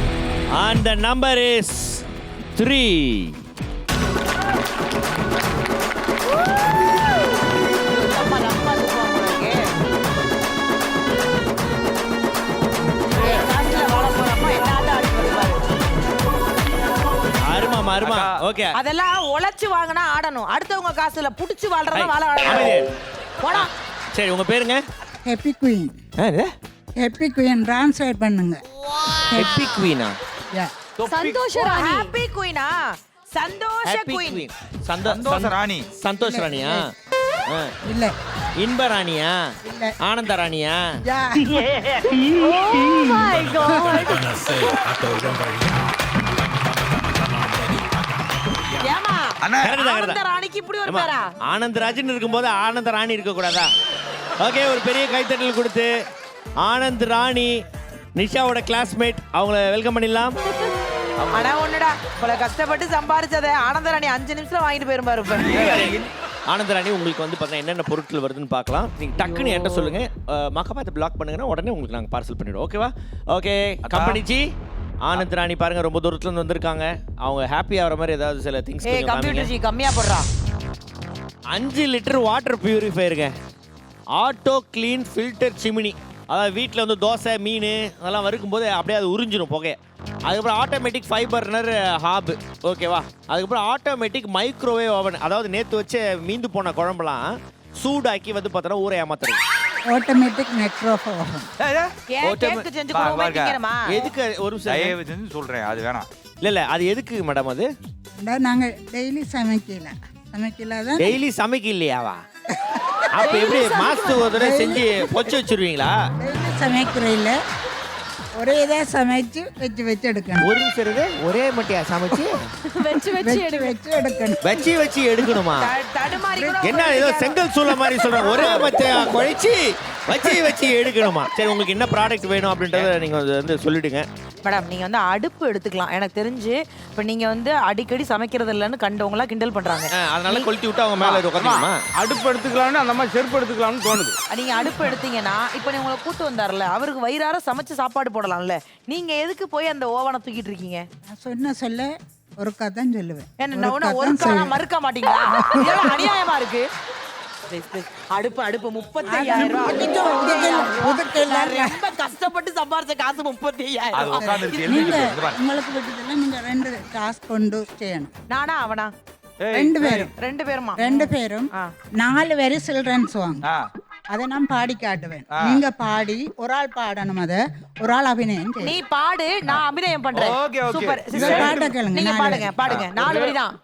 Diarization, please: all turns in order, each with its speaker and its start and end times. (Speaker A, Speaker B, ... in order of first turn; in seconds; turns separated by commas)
Speaker A: 0.5-3.4, Speaker B: 7.9-9.6, Speaker B: 13.1-15.6, Speaker A: 17.4-18.7, Speaker C: 18.0-18.4, Speaker B: 18.7-22.7, Speaker A: 21.9-22.8, Speaker B: 23.4-23.7, Speaker A: 23.5-24.8, Speaker D: 25.2-25.9, Speaker A: 26.2-26.5, Speaker D: 27.0-28.6, Speaker D: 29.3-29.6, Speaker A: 29.4-30.1, Speaker C: 31.0-31.4, Speaker E: 31.0-32.1, Speaker B: 31.5-32.7, Speaker B: 33.3-34.5, Speaker A: 33.8-36.8, Speaker C: 35.0-35.9, Speaker D: 36.2-36.8, Speaker A: 37.5-37.7, Speaker D: 37.8-38.1, Speaker A: 38.6-39.3, Speaker D: 39.6-39.9, Speaker A: 40.0-40.8, Speaker D: 41.0-41.6, Speaker B: 42.2-44.8, Speaker E: 42.3-45.8, Speaker D: 43.6-44.0, Speaker E: 46.9-47.9, Speaker B: 48.7-51.3, Speaker C: 49.4-49.7, Speaker A: 49.6-50.2, Speaker A: 50.9-53.7, Speaker A: 54.4-55.9, Speaker A: 56.6-57.6, Speaker A: 58.1-60.3, Speaker B: 61.3-65.9, Speaker C: 65.5-66.0, Speaker A: 65.6-66.0, Speaker A: 66.5-74.5, Speaker B: 69.2-69.9, Speaker C: 73.8-74.2, Speaker A: 75.0-79.5, Speaker B: 78.8-80.3, Speaker A: 81.5-83.3, Speaker A: 84.1-99.4, Speaker D: 99.9-101.5, Speaker C: 101.6-101.9, Speaker B: 102.1-103.8, Speaker A: 102.2-102.7, Speaker C: 102.9-103.6, Speaker A: 103.9-105.0, Speaker C: 104.7-106.1, Speaker A: 106.4-107.7, Speaker D: 108.2-111.2, Speaker A: 111.0-112.2, Speaker D: 112.5-113.0, Speaker A: 113.1-115.9, Speaker E: 113.2-114.3, Speaker D: 114.3-114.9, Speaker D: 116.2-117.3, Speaker D: 118.4-120.5, Speaker A: 120.4-122.4, Speaker E: 122.7-123.8, Speaker D: 123.2-124.4, Speaker A: 124.4-125.7, Speaker B: 125.6-127.4, Speaker D: 126.2-126.7, Speaker A: 126.6-134.1, Speaker B: 128.1-128.7, Speaker B: 134.4-141.7, Speaker A: 139.9-141.8, Speaker F: 141.9-144.2, Speaker B: 144.3-150.8, Speaker D: 151.1-154.6, Speaker B: 153.4-156.7, Speaker D: 155.3-156.1, Speaker B: 157.5-165.0, Speaker D: 159.1-161.8, Speaker C: 163.9-165.4, Speaker D: 164.1-168.1, Speaker B: 168.3-168.9, Speaker C: 169.4-170.1, Speaker D: 169.5-170.1, Speaker B: 170.1-171.7, Speaker D: 170.8-173.4, Speaker D: 174.1-178.8, Speaker C: 175.3-175.6, Speaker B: 178.6-183.5, Speaker C: 180.1-181.8, Speaker D: 181.2-182.7, Speaker C: 182.6-183.4